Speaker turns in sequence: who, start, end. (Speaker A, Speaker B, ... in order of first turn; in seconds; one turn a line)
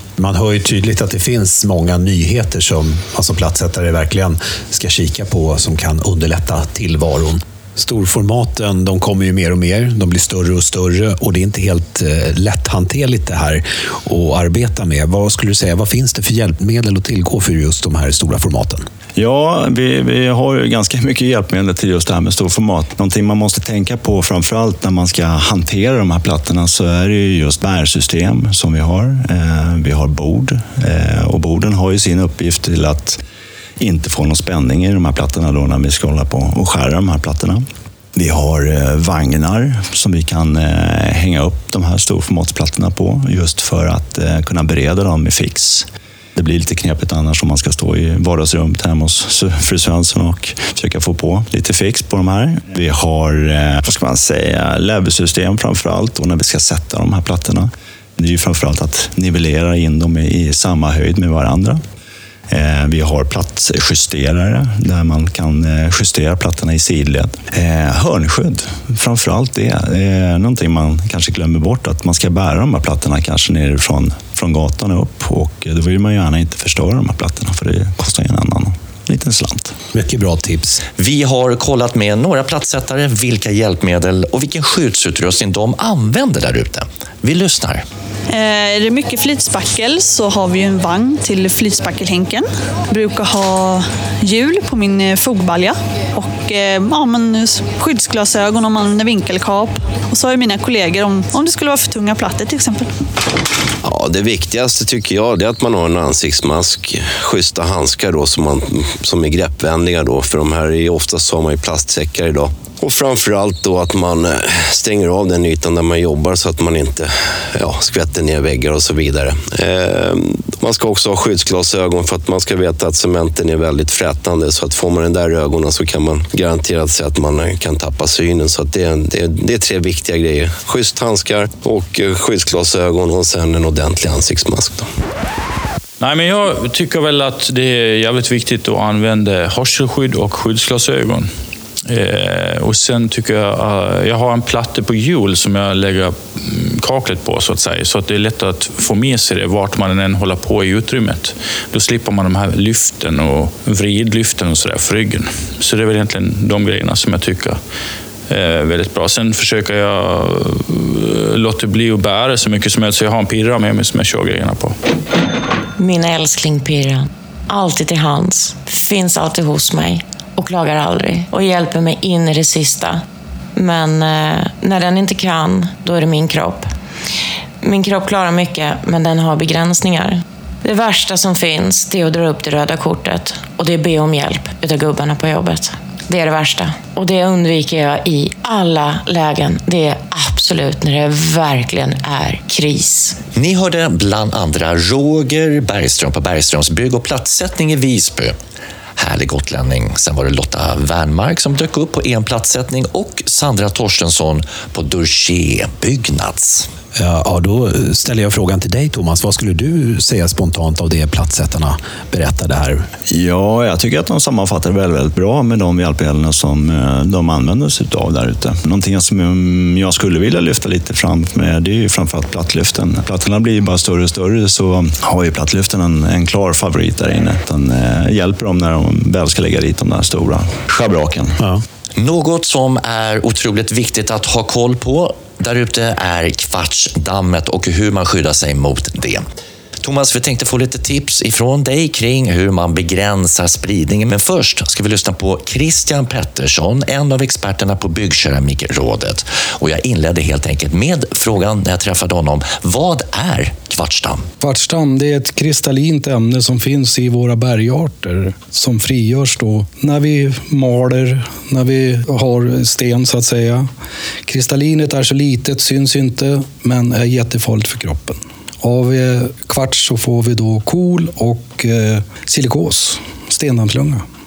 Speaker A: 0.2-18.8
Speaker B: 19.1-33.2
Speaker B: 33.8-37.6
Speaker B: 38.1-61.8
Speaker B: 62.5-79.7
Speaker A: 79.9-80.8
Speaker C: 81.0-87.8
Speaker D: 88.3-102.9
Speaker E: 103.8-134.8
Speaker F: 136.0-141.3
Speaker F: 141.9-157.6
Speaker F: 158.3-164.7
Speaker G: 165.8-173.0
Speaker G: 173.6-176.7
Speaker G: 177.6-193.2
Speaker C: 193.3-198.3
Speaker C: 199.0-206.7
Speaker A: 206.9-212.9
Speaker B: 213.1-231.4
Speaker C: 232.0-239.2
Speaker C: 239.8-254.2
Speaker H: 254.4-263.7
Speaker H: 264.2-274.0